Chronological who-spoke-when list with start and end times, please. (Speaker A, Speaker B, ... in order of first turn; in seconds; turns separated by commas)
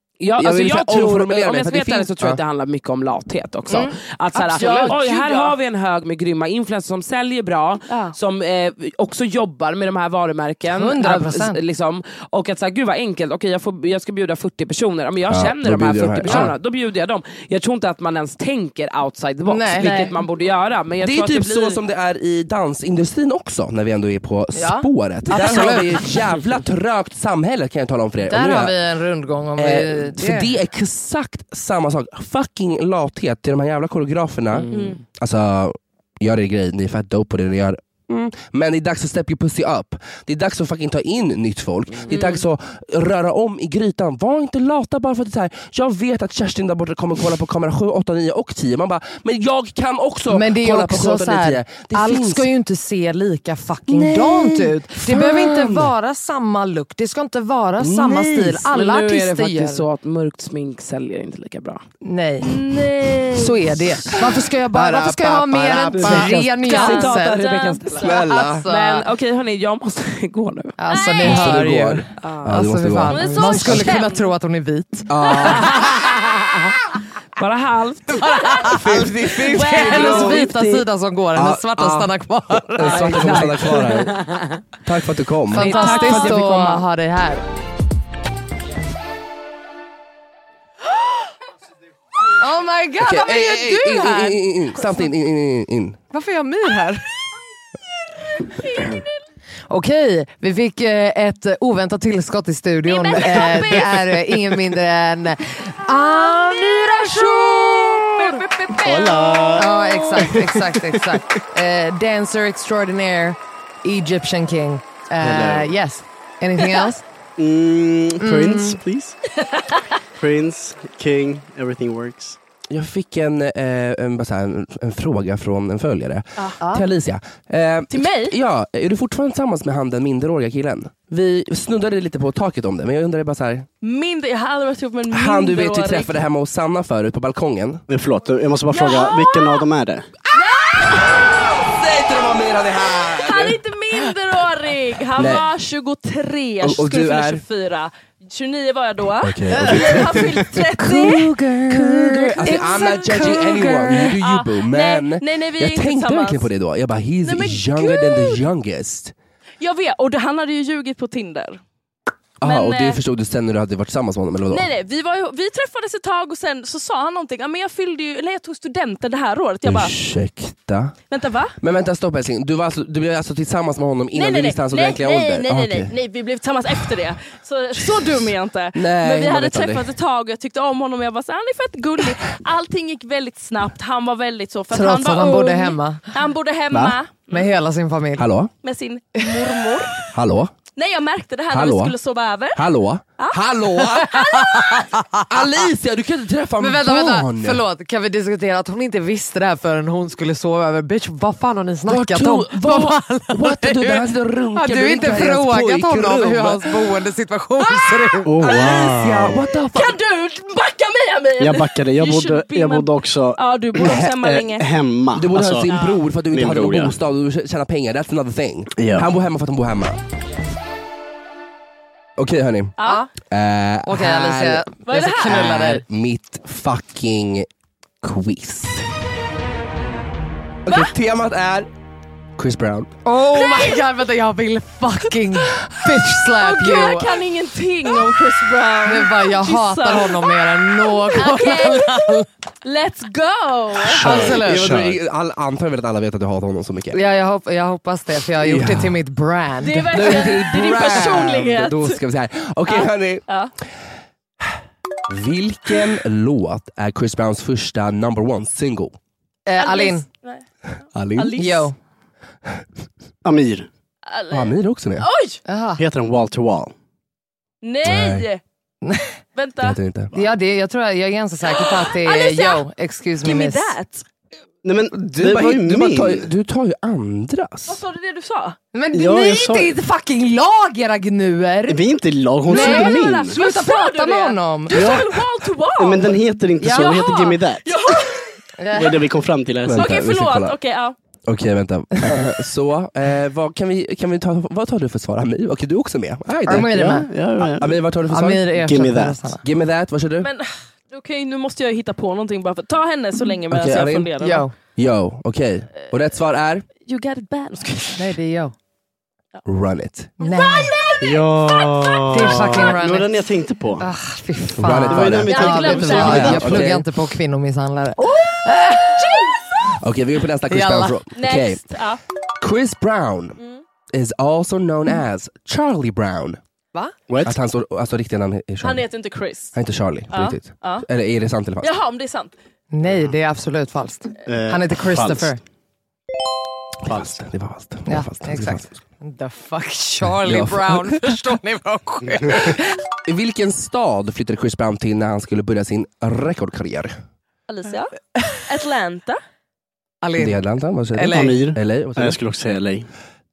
Speaker A: 0.2-21.8, Speaker B: 0.4-2.4, Speaker C: 3.7-5.0, Speaker D: 4.5-5.6, Speaker D: 7.9-8.2, Speaker C: 10.7-11.6, Speaker B: 15.3-16.5, Speaker C: 19.4-20.1, Speaker D: 19.8-20.1, Speaker B: 21.0-28.8, Speaker C: 24.6-26.2, Speaker C: 28.2-30.5, Speaker B: 29.6-52.5, Speaker A: 34.5-35.0, Speaker D: 34.7-35.0, Speaker D: 42.1-42.4, Speaker C: 50.3-59.9, Speaker B: 53.9-55.9, Speaker B: 57.8-58.6, Speaker A: 58.7-61.8, Speaker C: 62.0-62.6, Speaker D: 62.4-63.7, Speaker C: 63.3-67.4, Speaker A: 64.7-68.1, Speaker B: 64.8-66.5, Speaker D: 66.6-68.0, Speaker B: 68.0-68.7, Speaker C: 68.0-69.1, Speaker A: 68.7-70.8, Speaker C: 70.8-75.9, Speaker D: 70.9-71.6, Speaker B: 71.2-74.0, Speaker D: 73.1-74.3, Speaker B: 75.1-75.9, Speaker D: 75.4-75.8, Speaker A: 77.4-78.2, Speaker C: 78.1-84.3, Speaker D: 78.3-78.8, Speaker B: 78.6-80.5, Speaker D: 79.4-80.5, Speaker A: 80.0-80.8, Speaker B: 81.3-84.3, Speaker A: 82.8-83.8, Speaker B: 84.8-86.3, Speaker C: 85.5-87.5, Speaker D: 85.6-86.6, Speaker A: 85.6-86.8, Speaker C: 92.4-94.4, Speaker B: 93.0-96.0, Speaker C: 96.1-97.1, Speaker D: 98.6-99.1, Speaker C: 99.7-109.0, Speaker D: 102.9-104.2, Speaker D: 108.0-110.4, Speaker E: 108.8-111.2, Speaker C: 109.5-117.0, Speaker E: 115.2-115.7, Speaker E: 117.4-119.2, Speaker C: 118.2-118.8, Speaker D: 119.4-119.8, Speaker E: 120.2-122.4, Speaker B: 122.7-133.7, Speaker C: 126.6-126.8, Speaker D: 127.9-128.3, Speaker D: 133.8-136.2, Speaker B: 135.1-137.8, Speaker E: 137.9-140.1, Speaker D: 138.7-139.7, Speaker D: 140.3-141.3, Speaker B: 140.4-143.6, Speaker D: 143.2-156.5, Speaker B: 145.2-145.5, Speaker B: 146.6-147.4, Speaker B: 149.2-159.1, Speaker D: 157.2-158.4, Speaker D: 159.6-161.6, Speaker B: 162.4-164.7, Speaker D: 162.4-163.0, Speaker D: 164.5-169.9, Speaker B: 169.7-170.9, Speaker D: 171.1-171.6, Speaker B: 171.6-175.9, Speaker D: 174.1-187.5, Speaker B: 178.7-179.9, Speaker C: 184.7-186.0, Speaker C: 187.3-188.3, Speaker B: 188.2-188.5, Speaker D: 188.6-190.1, Speaker B: 190.1-190.5, Speaker D: 190.8-192.7, Speaker B: 191.5-192.0, Speaker B: 192.6-194.4, Speaker D: 193.2-194.9, Speaker C: 194.1-195.2, Speaker B: 195.3-197.6, Speaker C: 196.6-208.4, Speaker B: 201.9-206.8, Speaker E: 208.2-209.4, Speaker D: 208.4-208.9, Speaker B: 208.5-210.0, Speaker D: 209.7-214.7, Speaker E: 211.4-215.7, Speaker B: 215.1-220.0, Speaker D: 215.7-216.1, Speaker E: 216.3-217.0, Speaker E: 218.8-219.1, Speaker B: 222.2-222.8, Speaker D: 222.8-223.1, Speaker C: 222.8-223.1, Speaker B: 223.3-224.7, Speaker C: 223.9-225.8, Speaker D: 224.9-225.6, Speaker B: 225.3-227.5, Speaker B: 228.0-228.9, Speaker B: 230.7-231.7, Speaker B: 232.4-232.9, Speaker C: 233.1-237.2, Speaker D: 233.3-233.8, Speaker D: 236.2-244.0, Speaker C: 238.8-242.3, Speaker C: 243.9-244.8, Speaker E: 243.9-245.0, Speaker B: 244.0-247.0, Speaker C: 246.9-251.3, Speaker B: 248.4-249.0, Speaker D: 249.6-252.0, Speaker B: 249.9-253.3, Speaker D: 252.7-253.5, Speaker B: 255.1-259.0, Speaker C: 259.5-260.0, Speaker D: 259.6-260.4, Speaker B: 260.9-261.6, Speaker D: 261.1-261.7, Speaker C: 261.4-261.8, Speaker E: 263.2-263.7, Speaker D: 264.1-265.4, Speaker B: 264.3-265.1, Speaker C: 265.5-265.8, Speaker E: 265.8-266.8, Speaker D: 267.6-268.4, Speaker B: 267.9-268.3, Speaker C: 268.8-269.1, Speaker D: 269.4-269.8, Speaker B: 269.6-270.1, Speaker C: 270.1-273.8, Speaker D: 271.5-272.6, Speaker D: 273.2-274.1, Speaker E: 274.6-276.3, Speaker B: 274.9-277.8, Speaker D: 277.7-278.6, Speaker C: 278.7-281.9, Speaker E: 278.9-279.8, Speaker E: 281.7-283.4, Speaker C: 282.5-285.0, Speaker D: 282.5-288.4, Speaker E: 284.7-285.1, Speaker E: 285.8-287.7, Speaker C: 286.6-287.0, Speaker C: 288.6-289.0, Speaker E: 288.7-289.9, Speaker B: 289.6-290.6, Speaker D: 289.8-291.0, Speaker B: 291.3-296.7, Speaker C: 296.5-297.1, Speaker E: 296.5-297.8, Speaker B: 297.4-298.5, Speaker C: 298.1-299.4, Speaker E: 298.5-299.2, Speaker B: 299.4-300.3, Speaker D: 300.2-304.4, Speaker B: 303.5-304.1, Speaker C: 304.2-304.5, Speaker B: 304.8-306.7, Speaker D: 306.9-308.1, Speaker C: 308.0-308.5, Speaker B: 309.5-310.1, Speaker D: 310.2-312.6, Speaker C: 310.2-310.7, Speaker E: 311.0-313.9, Speaker C: 312.1-313.1, Speaker C: 313.8-319.3, Speaker B: 314.6-315.3, Speaker E: 314.9-316.8, Speaker D: 315.3-316.6, Speaker B: 315.9-316.9, Speaker D: 318.0-319.7, Speaker B: 319.8-321.6, Speaker C: 320.5-321.0, Speaker D: 321.1-322.0, Speaker B: 322.4-323.4, Speaker B: 323.9-326.4, Speaker E: 327.1-327.4, Speaker B: 327.2-328.9, Speaker D: 328.6-329.6, Speaker B: 329.5-331.7, Speaker D: 330.1-330.9, Speaker D: 331.6-332.3, Speaker C: 332.7-335.4, Speaker E: 334.3-335.4, Speaker B: 336.9-338.7, Speaker E: 336.9-337.2, Speaker C: 337.9-342.8, Speaker B: 340.2-341.2, Speaker B: 343.1-347.0, Speaker D: 347.5-349.2, Speaker C: 350.0-350.4, Speaker B: 350.2-352.2, Speaker C: 350.9-351.5, Speaker E: 351.1-352.9